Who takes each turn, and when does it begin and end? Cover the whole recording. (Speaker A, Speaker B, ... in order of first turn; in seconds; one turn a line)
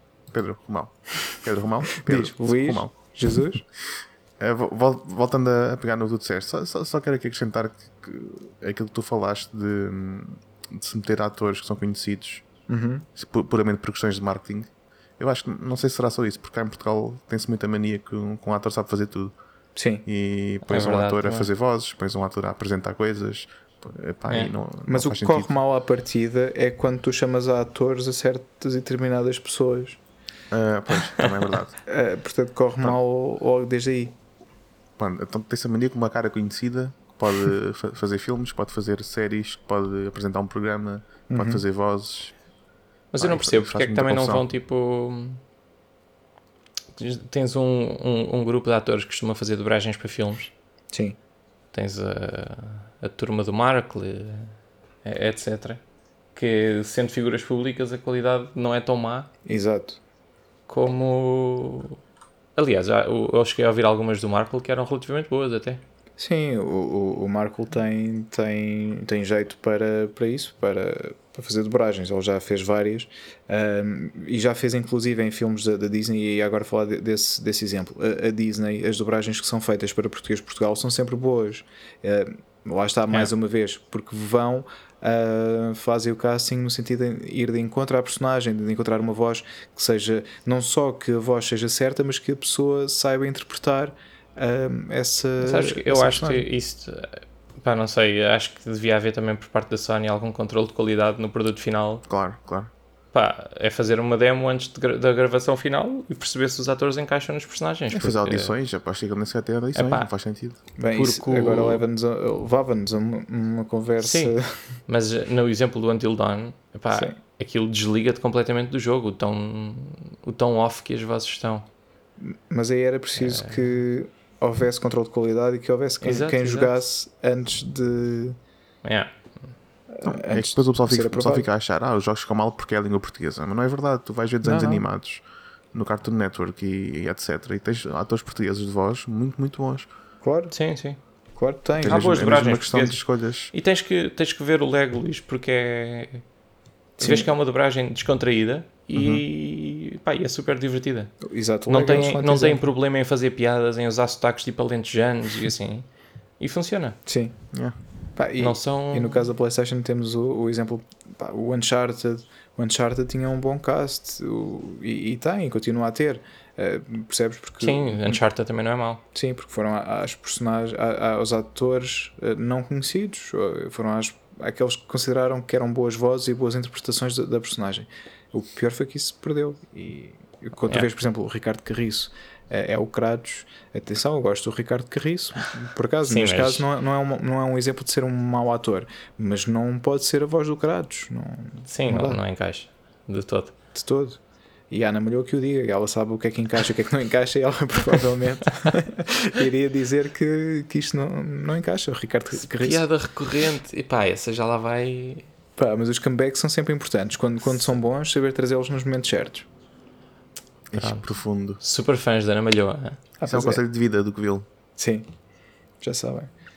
Speaker A: 0.3-2.9
Speaker B: 2.0-3.6
Speaker A: 4.4-12.4
Speaker B: 12.7-13.1
Speaker A: 13.2-19.3
Speaker B: 19.8-20.1
Speaker A: 20.1-25.5
Speaker C: 20.7-21.5
Speaker B: 24.9-30.0
Speaker A: 30.5-31.8
Speaker C: 31.2-31.5
Speaker B: 31.9-34.2
Speaker A: 35.0-42.3
Speaker B: 41.3-41.6
Speaker C: 43.1-45.4
Speaker A: 43.2-44.5
Speaker C: 47.0-50.5
Speaker C: 51.7-54.5
Speaker C: 55.0-55.8
Speaker C: 56.4-59.3
Speaker B: 59.5-60.0
Speaker C: 60.7-62.0
Speaker C: 62.6-65.8
Speaker B: 66.2-96.5
Speaker C: 95.4-102.0
Speaker A: 102.1-102.7
Speaker C: 103.1-108.5
Speaker A: 107.9-110.6
Speaker C: 109.8-110.1
Speaker B: 110.8-114.5
Speaker C: 110.9-111.8
Speaker C: 114.0-114.3
Speaker C: 114.9-121.7
Speaker B: 116.9-117.2
Speaker B: 122.2-128.4
Speaker C: 123.2-123.8
Speaker C: 126.0-126.7
Speaker C: 128.8-129.1
Speaker B: 129.9-131.5
Speaker A: 130.0-139.9
Speaker B: 134.4-134.8
Speaker B: 140.2-140.5
Speaker C: 140.5-141.0
Speaker B: 141.4-142.2
Speaker C: 141.8-143.0
Speaker A: 141.8-143.5
Speaker C: 143.5-146.2
Speaker B: 147.0-147.3
Speaker C: 147.0-155.9
Speaker A: 148.9-149.2
Speaker B: 151.2-152.6
Speaker C: 156.4-157.0
Speaker B: 157.1-157.4
Speaker B: 158.2-168.2
Speaker C: 158.4-159.3
Speaker C: 167.6-169.0
Speaker B: 169.1-192.2
Speaker C: 186.1-186.7
Speaker C: 191.7-193.5
Speaker B: 193.8-194.2
Speaker B: 194.7-202.9
Speaker C: 202.5-205.3
Speaker B: 205.6-209.5
Speaker A: 210.7-211.6
Speaker C: 210.7-211.1
Speaker C: 211.6-213.0
Speaker B: 213.2-213.6
Speaker A: 213.3-214.5
Speaker B: 214.8-215.1
Speaker B: 215.8-216.3